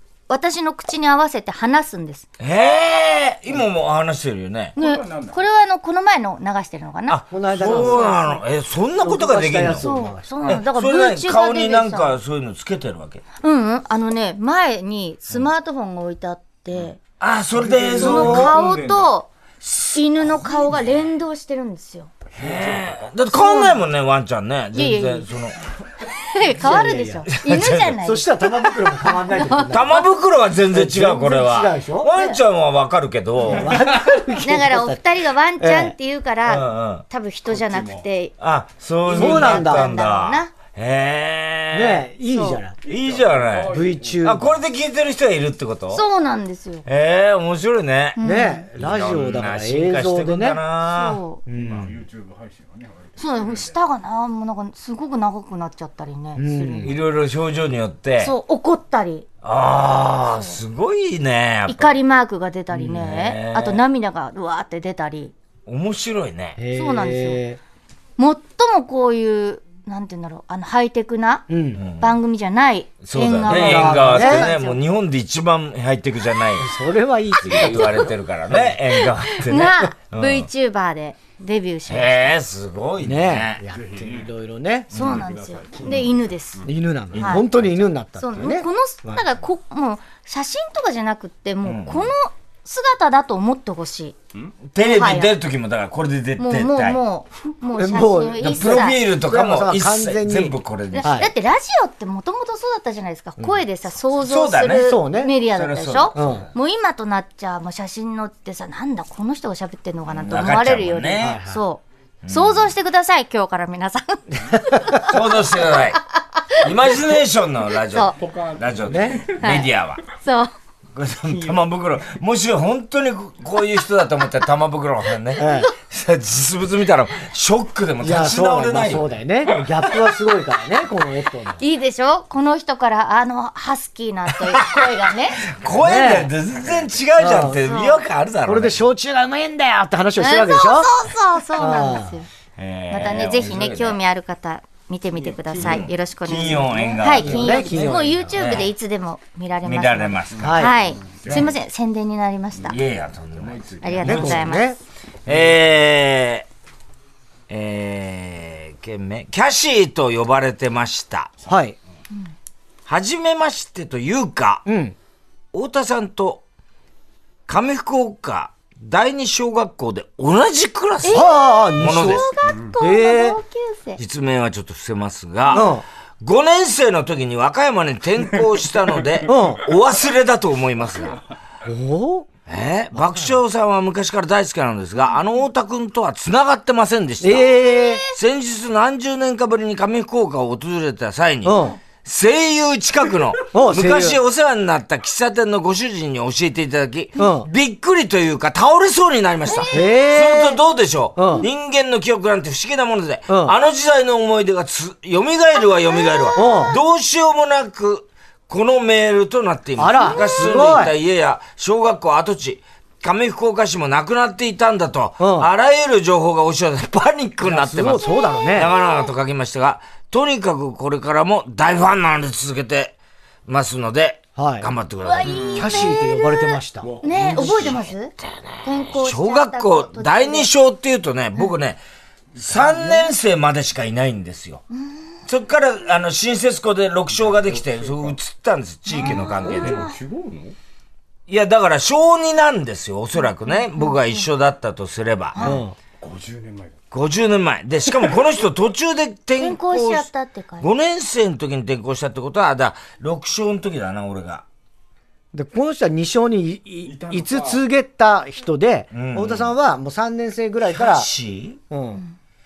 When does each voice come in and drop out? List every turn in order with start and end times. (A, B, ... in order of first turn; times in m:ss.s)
0:00.3-0:02.2 A
0:02.4-0:04.7 B
0:04.7-0:05.4 C
0:04.8-0:07.2 A
0:07.1-0:09.9 B
0:07.3-0:08.4 D
0:07.7-0:08.1 A
0:09.0-0:10.3 D
0:09.8-0:12.1 A
0:10.4-0:13.2 B
0:13.4-0:17.0 A
0:17.2-0:18.6 B
0:17.5-0:19.1 C
0:18.0-0:19.3 A
0:19.6-0:20.0 B
0:19.9-0:22.1 A
0:22.4-0:25.6 B
0:23.3-0:23.8 A
0:24.7-0:25.3 A
0:26.0-0:30.0 A
0:26.5-0:27.3 D
0:27.3-0:28.0 B
0:28.0-0:30.0 D
0:29.7-0:33.8 B
0:30.7-0:32.4 D
0:33.4-0:35.0 D
0:33.5-0:34.2 C
0:34.4-0:38.3 A
0:35.6-0:35.9 D
0:36.5-0:37.0 B
0:37.5-0:38.0 C
0:38.4-0:42.0 B
0:39.1-0:40.5 A
0:39.1-0:39.9 D
0:41.7-0:42.8 D
0:42.3-0:42.6 A
0:42.8-0:44.4 C
0:42.8-0:46.0 B
0:43.7-0:44.6 D
0:45.9-0:46.8 A
0:46.8-0:48.2 B
0:48.2-0:48.7 A
0:48.2-0:50.6 D
0:48.8-0:51.2 B
0:50.8-0:51.4 A
0:51.4-0:52.0 D
0:51.5-0:53.7 C
0:53.2-0:56.9 A
0:56.4-0:57.0 D
0:56.8-0:58.3 B
0:58.2-0:59.2 A
0:59.4-1:01.9 B
1:00.2-1:00.6 A
1:01.7-1:05.3 A
1:02.7-1:03.8 B
1:05.6-1:06.6 B
1:06.6-1:07.6 D
1:06.7-1:07.4 A
1:08.2-1:11.4 A
1:11.5-1:11.8 D
1:11.8-1:12.2 B
1:12.0-1:14.8 A
1:13.0-1:16.7 B
1:13.4-1:14.5 D
1:16.6-1:18.1 D
1:17.4-1:20.5 B
1:17.5-1:18.1 A
1:19.0-1:22.3 A
1:21.9-1:23.6 B
1:23.0-1:24.9 D
1:23.7-1:24.3 C
1:24.9-1:27.7 C
1:24.9-1:27.4 A
1:26.6-1:29.2 D
1:28.2-1:34.2 A
1:31.6-1:32.1 B
1:34.7-1:37.0 B
1:34.8-1:35.3 A
1:36.4-1:39.0 A
1:37.7-1:41.3 D
1:38.4-1:41.1 B
1:40.9-1:55.1 A
1:44.2-1:46.4 B
1:44.7-1:45.4 D
1:46.1-1:46.5 D
1:50.1-1:51.4 B
1:51.2-1:51.6 D
1:52.2-1:52.7 B
1:55.0-1:56.0 B
1:56.6-2:00.0 B
1:58.1-1:59.6 C
1:58.9-1:59.2 D
1:59.4-2:00.5 A
2:00.9-2:09.0 B
2:01.2-2:01.7 C
2:05.4-2:05.7 D
2:08.0-2:11.6 D
2:11.6-2:15.4 A
2:14.5-2:14.8 B
2:15.4-2:18.8 B
2:15.8-2:16.3 D
2:16.6-2:16.9 C
2:17.2-2:17.6 D
2:17.6-2:18.0 A
2:18.4-2:20.9 D
2:20.2-2:22.3 A
2:21.6-2:22.2 D
2:22.6-2:24.0 B
2:22.9-2:32.8 A
2:25.1-2:25.9 C
2:25.6-2:27.7 B
2:26.5-2:27.8 C
2:27.1-2:28.3 D
2:28.3-2:28.7 B
2:29.6-2:30.6 B
2:30.3-2:31.5 C
2:30.4-2:30.8 D
2:32.6-2:34.4 B
2:33.3-2:34.4 C
2:33.8-2:34.7 A
2:34.0-2:34.8 D
2:35.2-2:36.4 B
2:35.3-2:35.5 C
2:37.5-2:41.3 B
2:41.4-2:41.8 D
2:42.9-2:44.6 B
2:44.6-2:44.9 D
2:45.5-2:46.4 B
2:47.5-2:52.3 B
2:51.0-2:54.0 A
2:51.1-2:52.3 D
2:52.4-2:52.7 C
2:52.8-2:53.4 D
2:54.0-3:01.2 B
2:55.5-2:55.8 D
2:58.8-2:59.6 C
2:59.2-2:59.6 D
3:01.6-3:02.3 D
3:02.5-3:07.5 B
3:02.9-3:03.4 D
3:07.2-3:08.0 D
3:07.7-3:08.1 A
3:08.1-3:45.8 B
3:11.4-3:11.8 D
3:13.5-3:14.2 D
3:17.2-3:17.5 D
3:19.5-3:19.8 A
3:19.7-3:20.6 D
3:21.2-3:21.5 D
3:23.3-3:23.5 D
3:25.9-3:26.7 A
3:26.3-3:26.8 D
3:29.8-3:30.9 D
3:30.0-3:30.5 A
3:35.2-3:35.5 D
3:37.4-3:38.7 D
3:38.0-3:38.6 A
3:44.4-3:44.7 D
3:45.0-3:50.5 A
3:45.5-3:47.7 D
3:46.8-3:47.8 C
3:47.4-3:51.8 B
3:52.3-3:53.1 C
3:52.4-3:54.6 B
3:55.2-3:59.9 B
3:57.1-3:58.2 C
3:58.9-4:00.0 A
3:59.0-4:00.6 C
4:01.3-4:05.5 B
4:03.4-4:04.2 A
4:05.3-4:05.6 A
4:05.4-4:05.7 D
4:06.0-4:06.8 C
4:06.9-4:10.1 B
4:09.4-4:10.7 A
4:10.6-4:14.4 B
4:15.3-4:21.1 D
4:16.8-4:17.6 C
4:18.9-4:19.5 B
4:20.7-4:21.6 B
4:21.7-4:22.0 D